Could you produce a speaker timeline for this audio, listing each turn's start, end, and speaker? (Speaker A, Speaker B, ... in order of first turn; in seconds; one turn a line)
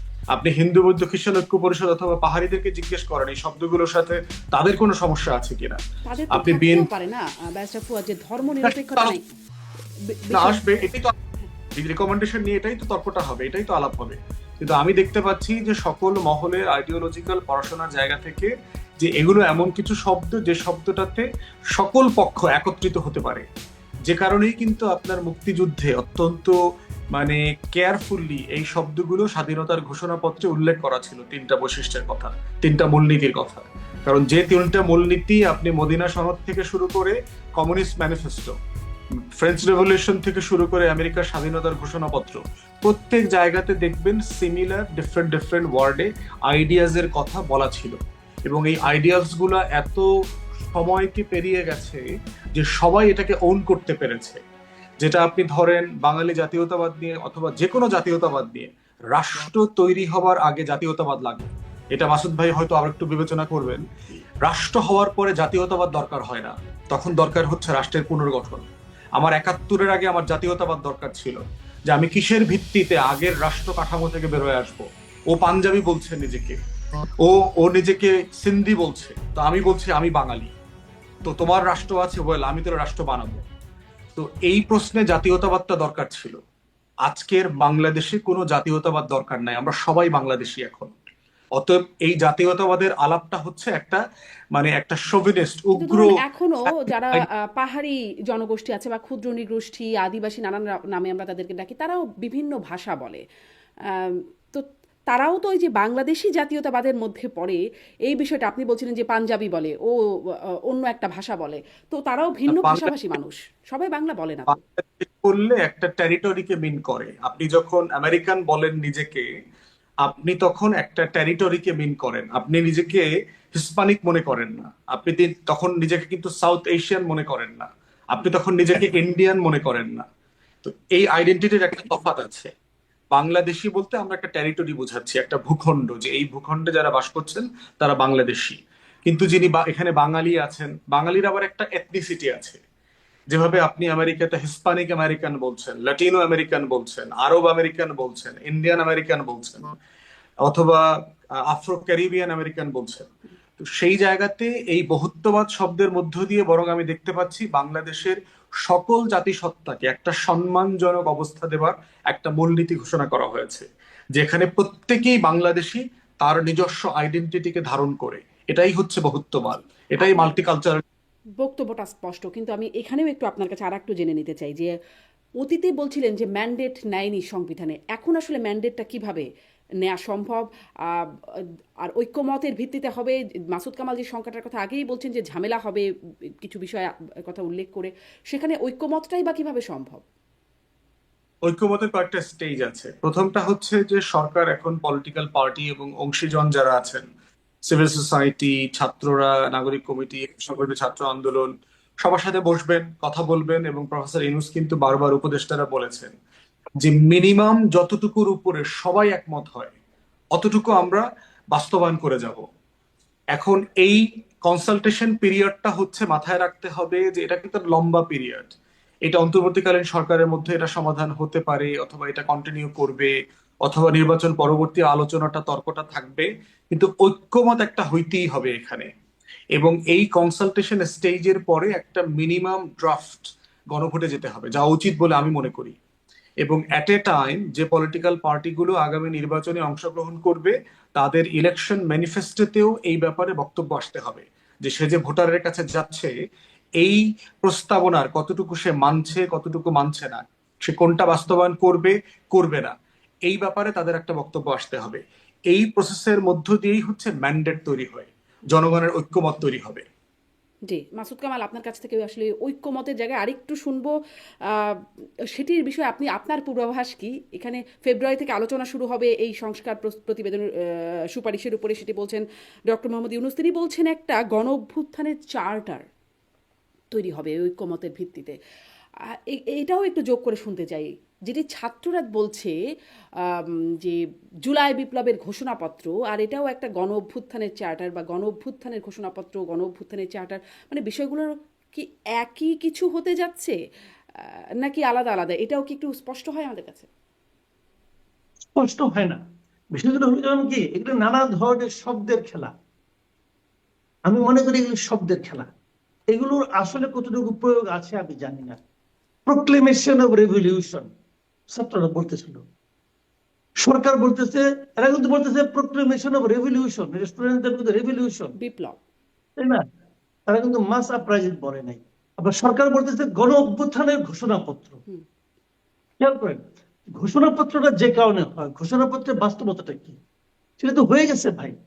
Speaker A: 0.3-5.8
Speaker B: 6.1-9.2
Speaker A: 6.3-6.9
Speaker A: 8.6-9.2
Speaker B: 10.1-10.9
Speaker A: 10.3-11.1
Speaker A: 11.8-23.5
Speaker A: 24.1-26.6
Speaker A: 27.1-38.5
Speaker A: 39.4-50.1
Speaker A: 50.7-52.0
Speaker A: 52.6-54.4
Speaker A: 55.0-63.8
Speaker A: 64.4-76.6
Speaker A: 77.2-80.5
Speaker A: 81.2-83.4
Speaker A: 84.2-86.4
Speaker A: 87.1-90.9
Speaker A: 91.6-94.0
Speaker A: 94.5-96.1
Speaker B: 95.8-103.2
Speaker B: 104.0-109.9
Speaker B: 110.7-114.6
Speaker A: 112.5-112.9
Speaker A: 114.5-119.3
Speaker A: 120.0-130.1
Speaker A: 130.6-132.5
Speaker A: 133.1-142.6
Speaker A: 143.3-149.7
Speaker A: 150.4-150.8
Speaker A: 151.5-170.8
Speaker B: 170.0-170.4
Speaker B: 171.4-174.7
Speaker B: 175.4-179.3
Speaker B: 179.8-181.1
Speaker B: 181.8-185.8
Speaker B: 186.4-190.0
Speaker A: 191.5-197.1
Speaker A: 197.7-201.5
Speaker A: 202.0-206.1
Speaker A: 206.8-209.7
Speaker A: 210.4-212.4
Speaker A: 213.3-218.6
Speaker A: 219.1-223.1
Speaker A: 223.7-228.9
Speaker A: 229.6-235.8
Speaker A: 236.4-246.1
Speaker A: 246.8-252.7
Speaker A: 253.3-259.9
Speaker B: 260.7-263.9
Speaker B: 264.5-264.8
Speaker B: 265.4-270.4
Speaker B: 271.1-275.8
Speaker B: 276.9-278.4
Speaker B: 279.3-282.6
Speaker B: 283.3-293.6
Speaker B: 294.6-296.9
Speaker C: 298.6-299.2
Speaker C: 299.7-302.5
Speaker C: 304.1-305.5
Speaker C: 306.1-308.6
Speaker C: 309.3-310.9
Speaker C: 311.5-312.4
Speaker C: 313.6-318.3
Speaker B: 318.4-318.8
Speaker C: 319.4-319.6
Speaker C: 320.3-324.8
Speaker C: 326.0-326.4
Speaker C: 327.0-330.0
Speaker C: 330.6-331.5